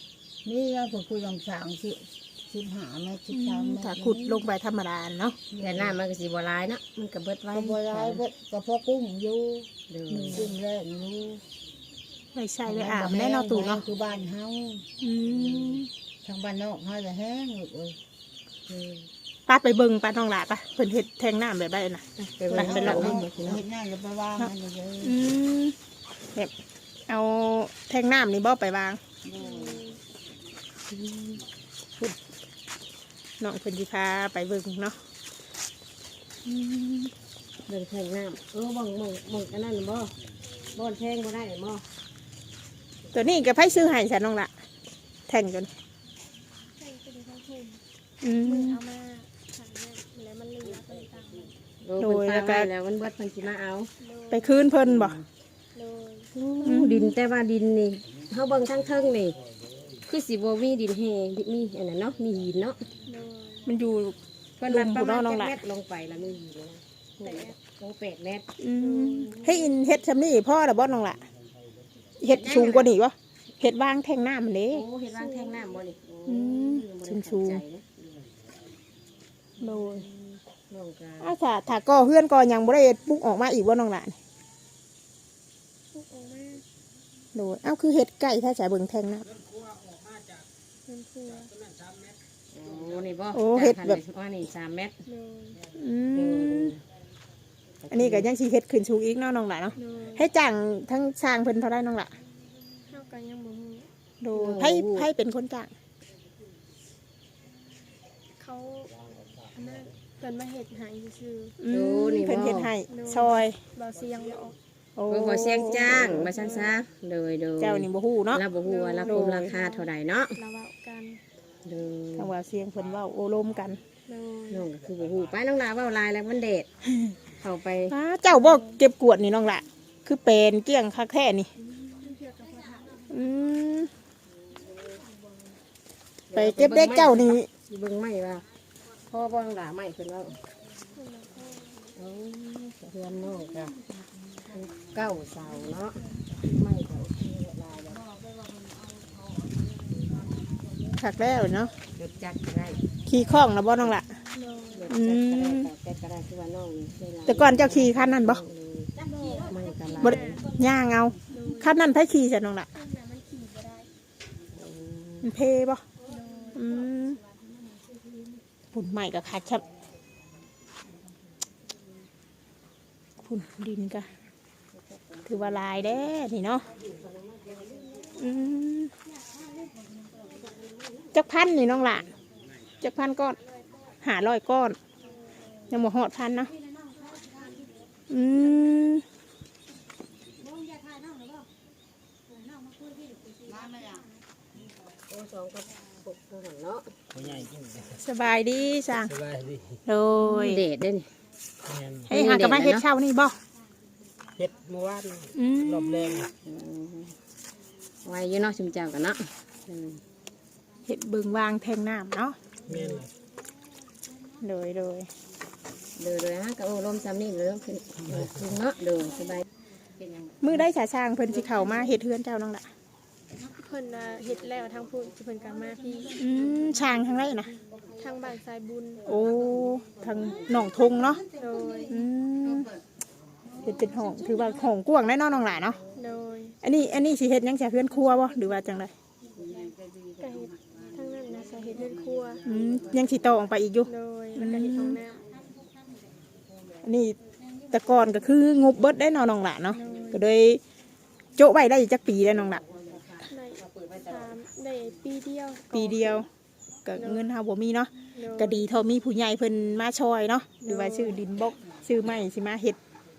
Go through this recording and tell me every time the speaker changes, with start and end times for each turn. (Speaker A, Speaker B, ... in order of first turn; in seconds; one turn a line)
Speaker A: 0.4-4.4
Speaker B: 3.3-5.4
Speaker A: 5.5-6.0
Speaker C: 5.6-8.2
Speaker A: 7.5-9.7
Speaker C: 9.9-10.5
Speaker B: 10.1-10.5
Speaker A: 10.3-11.4
Speaker B: 12.3-13.8
Speaker A: 12.7-14.8
Speaker B: 15.0-15.9
Speaker A: 16.2-18.0
Speaker C: 18.7-19.1
Speaker B: 19.5-23.2
Speaker C: 22.2-23.6
Speaker A: 22.5-25.3
Speaker B: 25.0-25.7
Speaker B: 27.1-29.0
Speaker A: 29.2-29.8
Speaker D: 29.4-30.0
Speaker C: 30.9-31.4
Speaker B: 33.4-35.0
Speaker B: 36.4-37.1
Speaker C: 37.7-40.1
Speaker C: 40.7-41.8
Speaker B: 43.1-44.5
Speaker B: 45.3-45.7
Speaker D: 46.8-47.8
Speaker B: 48.2-48.8
Speaker D: 48.4-51.5
Speaker C: 51.8-53.9
Speaker B: 52.0-52.7
Speaker D: 54.0-54.7
Speaker B: 54.3-55.2
Speaker C: 54.9-55.2
Speaker D: 55.7-56.3
Speaker C: 56.3-59.4
Speaker B: 56.6-57.1
Speaker C: 60.0-62.9
Speaker D: 63.0-63.7
Speaker B: 63.6-65.5
Speaker C: 64.6-68.5
Speaker D: 67.2-67.5
Speaker B: 68.6-71.2
Speaker D: 68.8-69.8
Speaker B: 72.2-74.8
Speaker C: 72.3-72.9
Speaker C: 74.7-77.9
Speaker D: 75.1-75.8
Speaker B: 76.2-77.6
Speaker B: 79.6-80.0
Speaker C: 79.6-81.3
Speaker B: 81.2-84.2
Speaker D: 85.9-86.6
Speaker B: 87.3-89.3
Speaker D: 90.8-91.5
Speaker C: 92.5-95.0
Speaker B: 93.3-94.0
Speaker D: 95.0-95.6
Speaker B: 95.7-96.8
Speaker C: 96.1-96.8
Speaker C: 97.8-98.3
Speaker B: 97.9-102.1
Speaker D: 99.7-100.3
Speaker D: 102.9-103.9
Speaker B: 104.2-105.7
Speaker C: 104.3-105.1
Speaker D: 108.4-111.6
Speaker B: 111.6-113.6
Speaker C: 111.7-112.7
Speaker D: 112.9-114.6
Speaker B: 115.0-116.3
Speaker C: 115.1-120.4
Speaker D: 116.1-116.7
Speaker B: 117.6-118.4
Speaker D: 118.6-121.2
Speaker B: 119.0-119.5
Speaker C: 121.6-122.3
Speaker B: 122.2-123.8
Speaker D: 124.1-124.7
Speaker C: 124.5-126.7
Speaker C: 127.4-127.9
Speaker B: 127.9-131.5
Speaker D: 128.3-128.7
Speaker D: 132.0-133.0
Speaker B: 133.1-133.9
Speaker C: 136.3-138.4
Speaker B: 136.3-137.5
Speaker C: 139.1-140.4
Speaker D: 140.9-141.8
Speaker C: 141.9-143.7
Speaker A: 144.1-145.0
Speaker C: 144.5-148.0
Speaker A: 147.9-150.9
Speaker B: 151.0-151.7
Speaker C: 151.9-152.8
Speaker B: 153.1-154.1
Speaker D: 154.3-154.9
Speaker C: 154.7-160.4
Speaker B: 154.9-155.7
Speaker B: 157.2-158.4
Speaker D: 160.0-160.5
Speaker B: 160.0-162.7
Speaker D: 161.3-161.9
Speaker D: 162.7-163.9
Speaker C: 164.5-165.3
Speaker B: 165.2-165.8
Speaker D: 166.0-166.8
Speaker B: 166.5-167.2
Speaker B: 168.7-169.6
Speaker B: 173.2-174.1
Speaker C: 175.2-175.6
Speaker B: 175.2-176.7
Speaker C: 177.2-178.1
Speaker B: 178.1-178.9
Speaker B: 181.1-182.1
Speaker B: 182.8-183.4
Speaker B: 184.0-184.8
Speaker B: 185.7-186.5
Speaker B: 188.1-189.0
Speaker A: 193.3-194.1
Speaker C: 195.1-197.4
Speaker B: 197.9-199.2
Speaker E: 199.3-199.6
Speaker B: 199.8-200.6
Speaker C: 200.2-201.1
Speaker E: 201.7-202.0
Speaker B: 202.1-203.4
Speaker C: 202.1-202.8
Speaker E: 204.4-205.3
Speaker B: 205.3-206.3
Speaker E: 205.8-206.2
Speaker C: 206.4-207.2
Speaker C: 208.0-210.0
Speaker B: 210.8-212.3
Speaker C: 212.7-213.0
Speaker B: 214.4-215.1
Speaker C: 215.9-220.7
Speaker B: 220.4-222.7
Speaker D: 223.4-226.2
Speaker B: 226.1-227.5
Speaker D: 228.0-229.2
Speaker B: 229.1-231.2
Speaker A: 230.0-232.8
Speaker D: 231.3-231.9
Speaker B: 231.9-232.7
Speaker B: 233.6-235.8
Speaker D: 235.9-236.6
Speaker B: 236.6-238.9
Speaker A: 239.3-243.4
Speaker D: 240.2-242.4
Speaker B: 242.4-245.0
Speaker D: 243.8-245.2
Speaker B: 246.8-247.2
Speaker B: 247.7-250.6
Speaker D: 249.7-250.2
Speaker B: 251.4-252.6
Speaker C: 252.7-254.1
Speaker D: 253.2-256.2
Speaker B: 255.7-256.3
Speaker B: 256.8-262.8
Speaker D: 256.9-257.3
Speaker D: 258.1-258.6
Speaker D: 260.6-261.2